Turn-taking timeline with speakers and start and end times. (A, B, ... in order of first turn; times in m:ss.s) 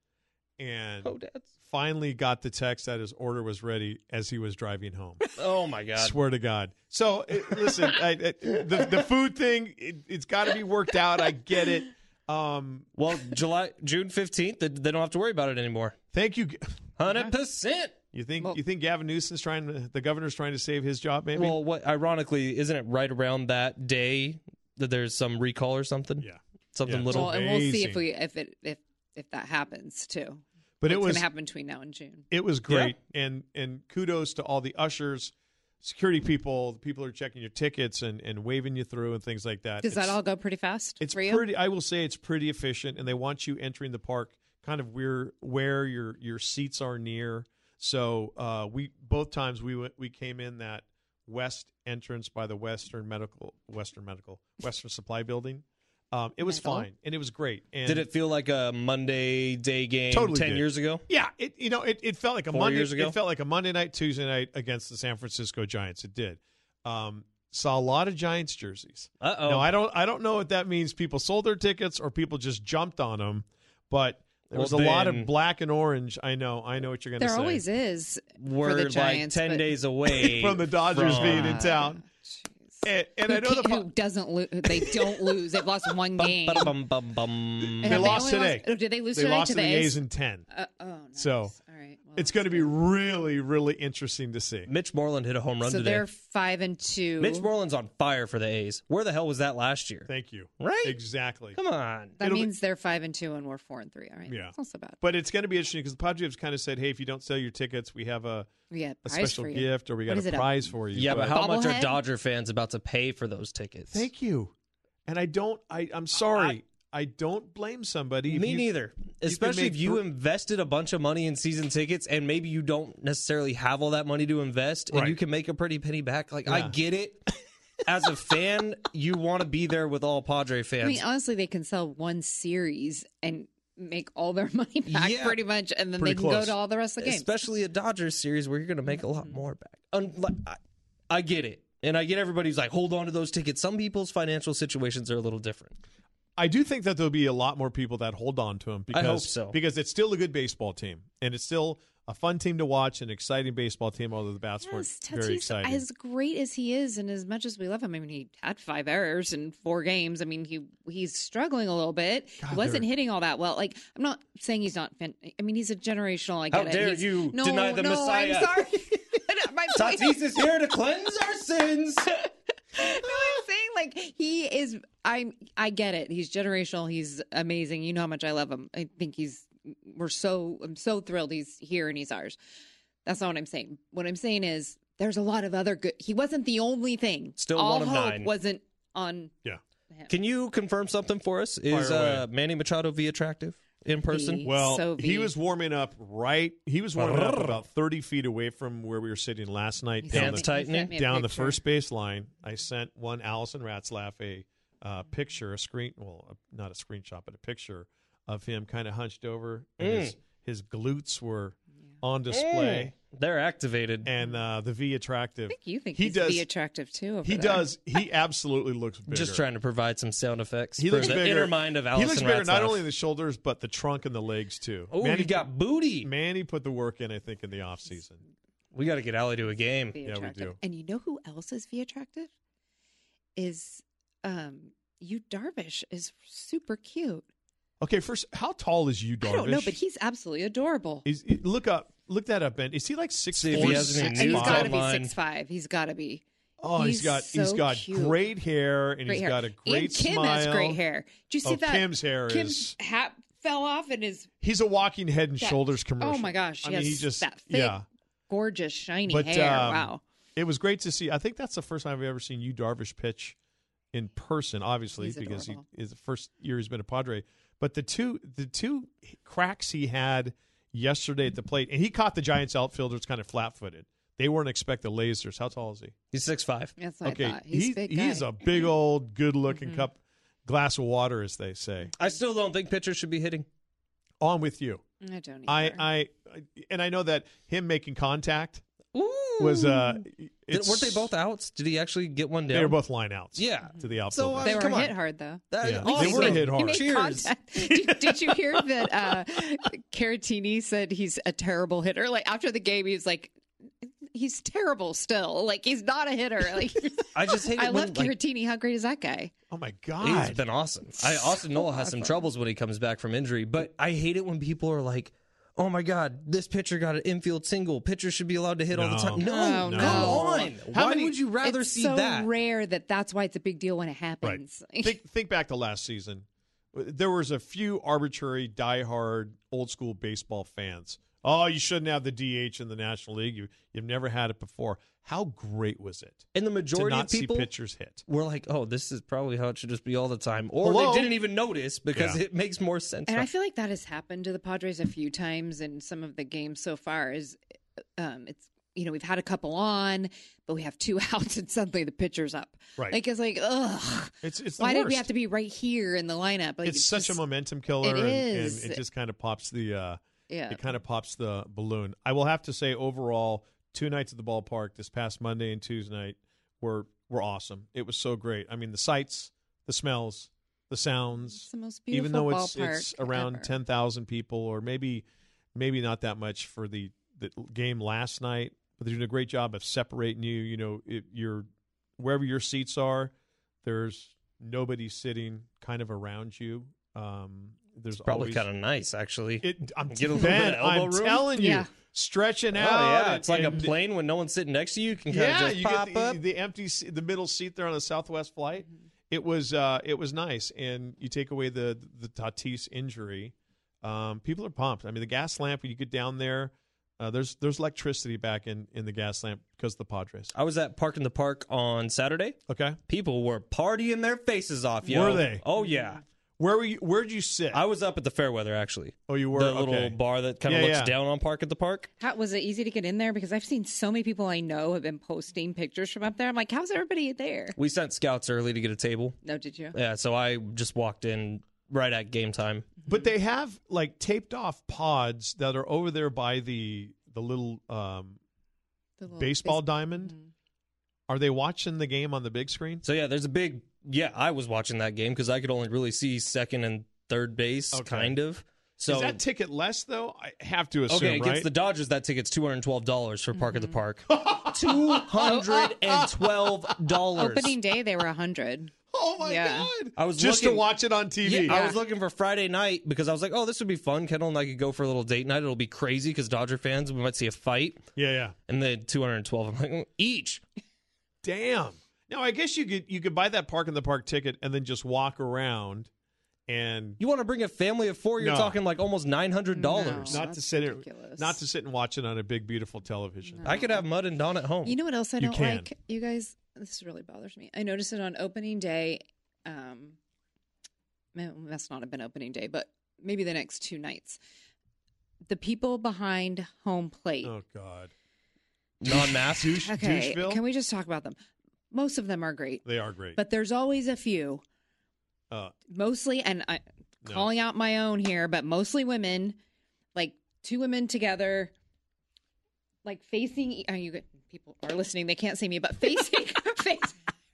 0:00.6-0:05.2 A
0:01.0-0:01.5 B
0:05.4-0:06.2 B
0:05.9-0:12.9 A
0:13.0-0:16.0 B
0:16.1-0:17.3 A
0:17.0-0:18.0 B
0:18.1-0:21.6 A
0:21.3-0:27.3 B
0:26.2-0:28.0 A
0:27.1-0:32.3 C
0:30.8-0:31.2 A
0:32.3-0:40.2 A
0:32.7-0:33.0 B
0:39.8-0:41.4 C
0:41.0-0:58.1 A
0:56.4-0:56.8 C
0:57.8-1:01.0 B
1:00.1-1:17.6 A
1:02.5-1:03.2 B
1:09.2-1:09.7 B
1:14.5-1:15.3 B
1:17.2-1:19.7 C
1:18.4-1:21.6 B
1:20.1-1:22.0 A
1:21.0-1:26.7 C
1:22.8-1:23.9 A
1:24.7-1:25.6 A
1:26.2-1:28.2 B
1:27.6-1:30.4 A
1:27.8-1:30.0 C
1:30.5-1:32.7 C
1:31.2-1:31.5 A
1:32.1-1:34.7 A
1:34.7-1:36.0 B
1:35.6-1:37.5 C
1:37.2-1:40.1 B
1:40.1-1:41.6 A
1:40.6-1:41.0 B
1:41.5-1:42.2 B
1:42.2-1:45.0 C
1:42.2-1:42.5 A
1:44.3-1:48.5 A
1:48.7-1:52.0 C
1:49.0-1:51.4 A
1:50.9-1:54.1 B
1:53.9-1:54.5 A
1:55.0-1:58.7 A
1:58.3-2:07.3 B
1:59.2-2:00.0 A
2:04.9-2:05.2 A
2:06.4-2:06.7 A
2:07.8-2:11.0 B
2:10.8-2:17.2 C
2:14.9-2:15.4 B
2:16.0-2:16.6 A
2:17.0-2:20.6 B
2:18.9-2:19.3 C
2:21.1-2:25.8 B
2:26.4-2:35.8 A
2:28.9-2:29.6 B
2:34.6-2:50.4 C
2:42.4-2:42.8 A
2:46.5-2:49.0 B
2:49.7-2:52.2 B
2:52.7-3:02.4 C
3:03.0-3:09.3 C
3:07.4-3:08.3 B
3:10.1-3:14.4 B
3:11.7-3:12.2 A
3:14.1-3:15.3 C
3:14.4-3:32.9 A
3:17.0-3:17.6 B
3:20.0-3:21.6 C
3:20.1-3:20.9 B
3:29.8-3:30.1 B
3:32.3-3:34.1 B
3:34.0-3:36.4 A
3:35.5-3:37.7 C
3:37.2-3:39.4 A
3:39.1-3:42.8 B
3:40.8-3:45.5 A
3:44.9-3:46.1 B
3:46.0-3:48.2 A
3:48.7-3:50.0 B
3:49.9-3:52.3 C
3:50.0-3:50.6 A
3:53.4-3:57.3 C
3:57.8-3:59.8 A
3:59.2-4:01.0 C
4:01.0-4:04.7 A
4:03.3-4:05.1 B
4:03.5-4:06.2 C
4:06.6-4:10.8 A
4:06.7-4:08.2 C
4:09.1-4:14.3 C
4:11.4-4:12.8 A
4:14.4-4:17.8 A
4:15.4-4:17.8 C
4:18.3-4:20.0 C
4:19.1-4:23.4 A
4:23.9-4:35.9 A
4:25.0-4:25.6 C
4:36.1-4:36.7 B
4:36.8-4:38.6 C
4:37.0-4:41.9 A
4:39.5-4:39.8 C
4:42.0-4:43.4 B
4:44.2-4:44.8 A
4:45.0-4:45.8 C
4:45.5-4:48.6 A
4:48.9-4:52.8 B
4:49.4-4:51.1 A
4:52.5-4:54.7 A
4:53.4-4:54.9 B
4:54.4-5:09.3 C
4:55.5-4:57.3 B
4:55.6-4:56.8 A
4:57.6-4:58.8 A
5:07.1-5:08.1 B
5:09.5-5:10.4 A
5:10.0-5:22.3 B
5:11.4-5:12.2 C
5:18.7-5:21.1 A
5:19.2-5:20.5 C
5:21.4-5:25.0 C
5:24.2-5:38.0 A
5:36.3-5:37.5 B
5:38.1-5:43.3 B
5:40.6-5:41.1 A
5:41.9-5:42.2 A
5:43.1-5:47.4 C
5:48.0-5:57.2 C
5:54.2-5:55.1 A
5:56.6-6:21.5 A
5:57.8-5:58.8 C
6:00.3-6:00.6 C
6:11.3-6:13.5 C
6:22.0-6:23.1 A
6:23.6-6:28.4 A
6:28.0-6:31.3 B
6:29.4-6:33.7 A
6:31.4-6:31.7 C
6:32.5-6:36.2 B
6:35.1-6:50.3 A
6:50.3-6:52.4 B
6:52.5-6:52.8 A
6:52.9-6:56.0 B
6:54.8-6:55.4 A
6:55.6-6:56.0 C
6:56.4-6:57.6 A
6:57.5-7:01.9 B
6:59.1-7:00.9 A
7:02.0-7:07.6 C
7:07.6-7:09.2 B
7:09.2-7:09.7 C
7:09.7-7:12.7 B
7:12.8-7:18.2 A
7:19.0-7:20.3 C
7:19.1-7:20.1 A
7:21.1-7:22.8 A
7:22.8-7:29.2 B
7:27.7-7:28.2 A
7:28.9-7:31.5 A
7:30.9-7:37.5 B
7:33.3-7:33.8 C
7:34.1-7:36.8 A
7:37.2-7:39.7 C
7:38.9-7:41.6 A
7:40.0-7:40.7 B
7:41.2-7:47.8 B
7:41.5-7:41.8 C
7:48.0-7:48.3 A
7:48.5-7:50.4 B
7:51.2-7:55.9 A
7:56.5-7:57.0 A
7:57.0-8:00.2 B
7:58.2-7:58.6 A
7:59.5-8:01.4 C
8:00.0-8:03.6 A
8:03.3-8:03.8 C
8:03.4-8:04.8 B
8:04.6-8:10.0 C
8:05.2-8:05.7 A
8:11.1-8:14.2 C
8:15.3-8:17.3 C
8:17.2-8:17.9 A
8:18.8-8:19.6 B
8:18.9-8:20.4 A
8:19.6-8:21.2 C
8:21.7-8:22.6 C
8:22.6-8:23.2 A
8:23.1-8:24.4 C
8:25.7-8:29.4 C
8:29.9-8:31.5 C
8:32.8-8:37.0 C